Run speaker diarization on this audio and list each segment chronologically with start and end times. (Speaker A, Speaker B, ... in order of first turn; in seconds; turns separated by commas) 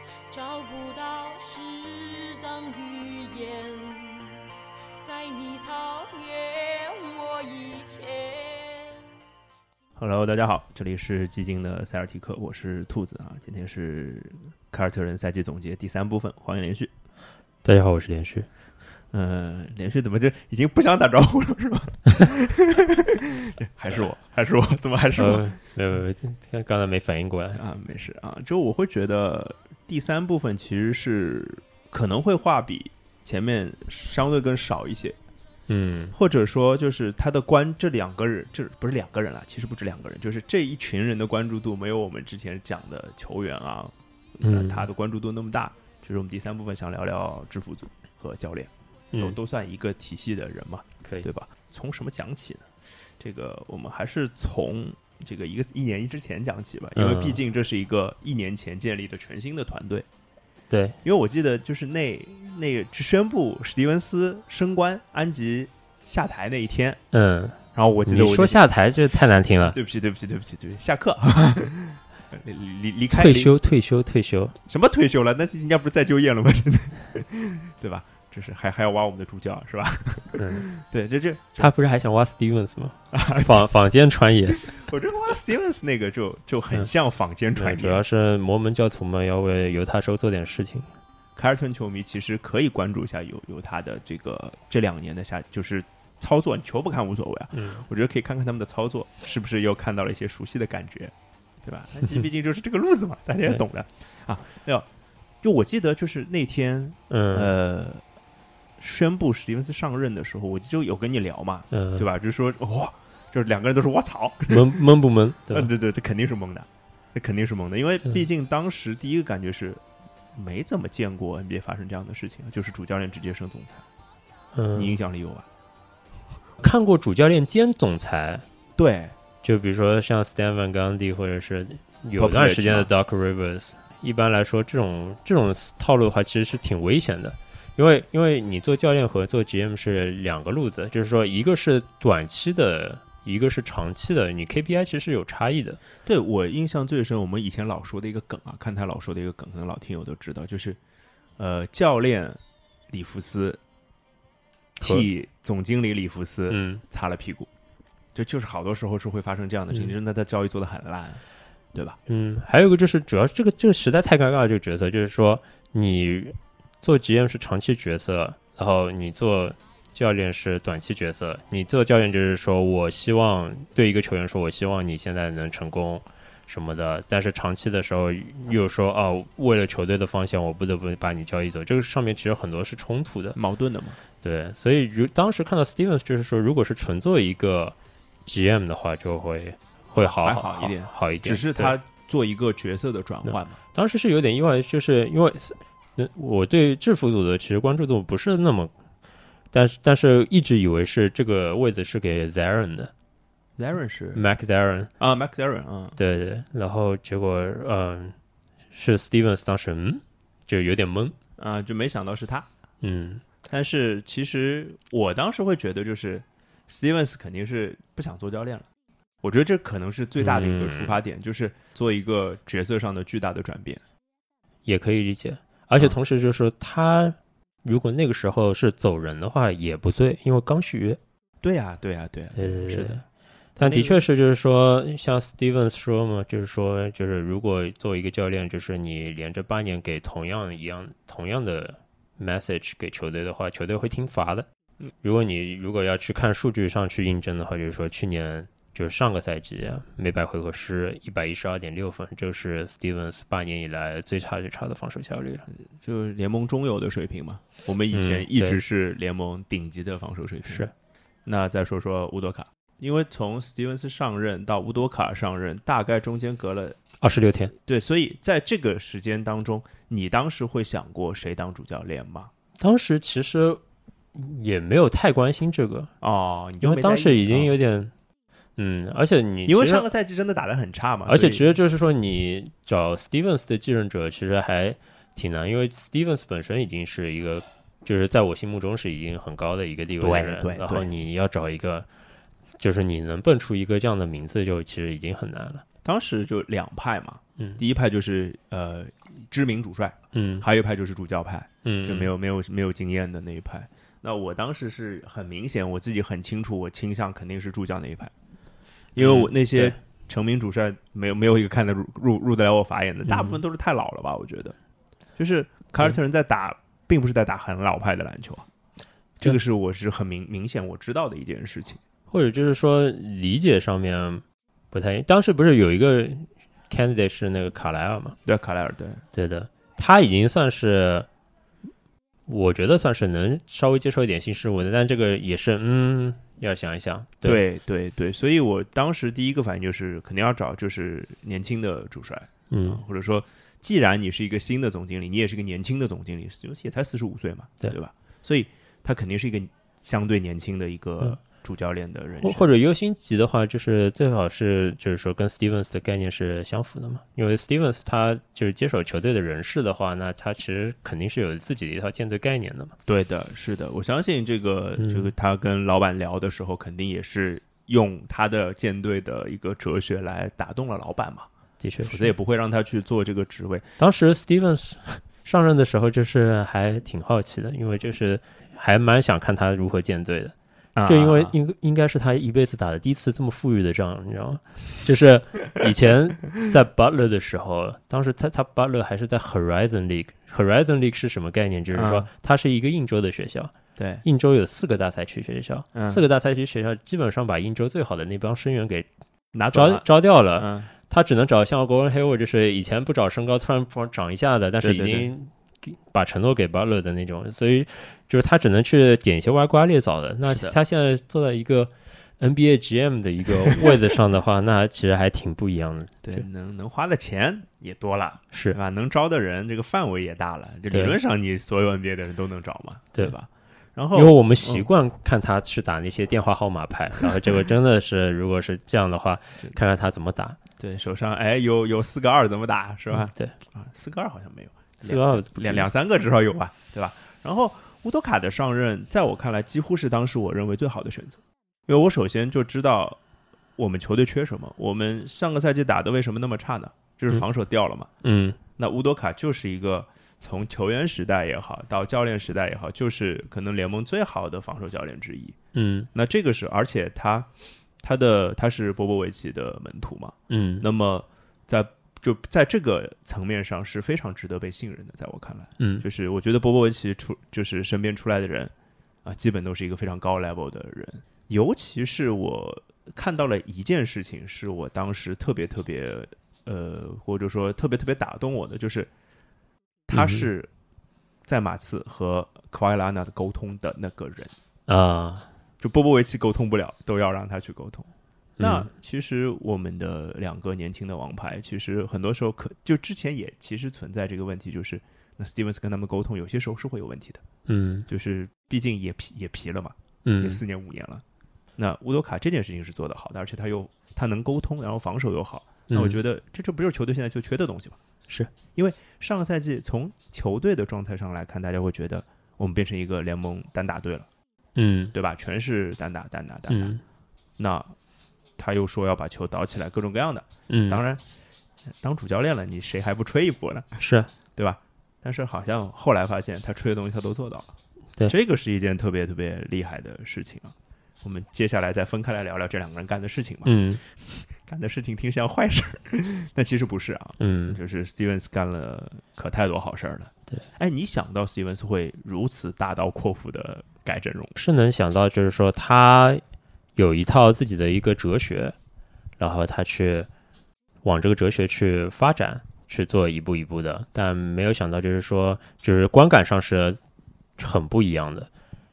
Speaker A: 0.3-4.4, Speaker A: 5.0-9.1, Speaker B: 10.0-16.9, Speaker C: 17.6-18.5, Speaker B: 19.1-25.6, Speaker C: 25.2-27.6, Speaker B: 27.6-35.2, Speaker C: 35.7-36.1, Speaker B: 36.1-60.1, Speaker C: 44.4-44.9, Speaker C: 57.0-57.4, Speaker C: 60.7-61.0, Speaker B: 61.0-67.0, Speaker C: 67.1-69.8, Speaker B: 67.8-68.7, Speaker B: 69.6-73.5, Speaker C: 73.1-74.6, Speaker B: 74.7-81.7, Speaker C: 80.4-80.7, Speaker C: 81.6-84.7, Speaker B: 83.1-83.7, Speaker B: 84.5-88.0, Speaker C: 87.6-90.9, Speaker B: 91.4-104.9, Speaker C: 97.5-97.8, Speaker B: 105.4-108.0, Speaker C: 107.1-107.5, Speaker B: 108.8-114.8, Speaker C: 111.7-112.1, Speaker C: 114.5-115.7, Speaker B: 115.5-119.8, Speaker B: 120.3-123.8, Speaker C: 124.5-124.9, Speaker B: 124.7-125.5, Speaker C: 126.6-128.5, Speaker B: 128.8-129.2, Speaker C: 129.4-145.8, Speaker B: 132.2-132.9, Speaker B: 146.1-150.8, Speaker B: 151.4-153.6, Speaker B: 154.8-157.5, Speaker C: 156.5-156.8, Speaker B: 158.2-161.2, Speaker C: 162.1-183.4, Speaker B: 183.4-184.0, Speaker C: 184.2-191.8, Speaker B: 190.0-193.6, Speaker C: 193.3-198.7, Speaker C: 199.5-202.9, Speaker B: 203.6-204.2, Speaker C: 204.2-204.9, Speaker B: 205.0-206.0, Speaker C: 206.0-208.2, Speaker C: 208.7-211.2, Speaker B: 211.4-212.5, Speaker C: 212.8-213.2, Speaker B: 213.4-218.7, Speaker B: 219.2-223.8, Speaker C: 220.2-221.0, Speaker C: 224.7-231.0, Speaker B: 231.4-233.0, Speaker C: 232.3-233.0, Speaker B: 233.6-234.0, Speaker C: 233.6-244.5, Speaker C: 245.0-255.5, Speaker B: 255.7-260.7, Speaker C: 257.9-258.6, Speaker C: 260.5-260.7, Speaker B: 261.3-266.8, Speaker C: 267.0-267.5, Speaker B: 267.7-272.3, Speaker C: 272.6-273.6, Speaker C: 274.1-275.9, Speaker B: 276.0-277.5, Speaker C: 276.6-277.9, Speaker C: 278.6-279.9, Speaker B: 279.5-281.5, Speaker C: 281.1-291.9, Speaker B: 290.0-290.9, Speaker C: 292.6-295.6, Speaker B: 295.8-308.1, Speaker C: 300.1-300.5, Speaker C: 301.6-302.1, Speaker B: 308.9-314.6, Speaker C: 309.0-309.8, Speaker C: 313.1-313.4, Speaker B: 315.2-318.5, Speaker B: 319.2-321.8, Speaker C: 322.1-328.2, Speaker B: 328.3-329.0, Speaker C: 329.1-331.1, Speaker C: 332.3-337.4, Speaker B: 337.2-352.5, Speaker C: 342.5-342.8, Speaker C: 352.2-362.8, Speaker B: 362.9-371.3, Speaker C: 364.8-365.1, Speaker C: 371.6-372.1, Speaker B: 371.8-373.7, Speaker C: 373.8-380.4, Speaker B: 380.8-381.4, Speaker C: 380.9-398.9, Speaker B: 391.8-392.1, Speaker B: 393.8-394.1, Speaker B: 395.8-396.0, Speaker B: 399.3-399.9, Speaker C: 399.5-416.2, Speaker B: 400.4-400.7, Speaker B: 404.6-405.1, Speaker B: 410.3-410.6, Speaker B: 413.5-413.8, Speaker B: 416.0-424.7, Speaker C: 418.3-418.6, Speaker C: 420.7-421.0, Speaker C: 423.9-430.4, Speaker B: 430.6-443.0, Speaker C: 432.9-433.4, Speaker C: 434.8-435.7, Speaker B: 443.6-447.9, Speaker C: 448.0-448.4, Speaker B: 448.6-455.4, Speaker C: 455.5-455.9, Speaker B: 455.9-457.3, Speaker B: 457.8-468.5, Speaker C: 460.3-460.7, Speaker C: 465.6-465.8, Speaker B: 469.1-478.9, Speaker B: 479.9-480.5, Speaker C: 479.9-480.3, Speaker B: 481.2-484.3, Speaker C: 484.7-485.3, Speaker B: 485.6-487.9, Speaker C: 488.4-488.7, Speaker B: 488.4-497.2, Speaker C: 497.5-497.9, Speaker B: 497.9-501.0, Speaker C: 500.1-500.4, Speaker B: 501.6-507.8, Speaker C: 505.7-506.0, Speaker B: 508.5-514.1, Speaker C: 514.6-514.9, Speaker B: 514.9-516.8, Speaker C: 516.5-516.8, Speaker B: 517.4-517.8, Speaker B: 518.4-521.0, Speaker C: 520.5-520.8, Speaker B: 521.8-523.8, Speaker C: 523.8-524.1, Speaker B: 524.4-527.5, Speaker B: 528.1-544.4, Speaker C: 533.5-533.8, Speaker C: 537.2-537.6, Speaker C: 544.4-546.2, Speaker C: 546.8-548.5, Speaker C: 549.2-550.1, Speaker C: 550.8-556.8, Speaker C: 557.4-558.3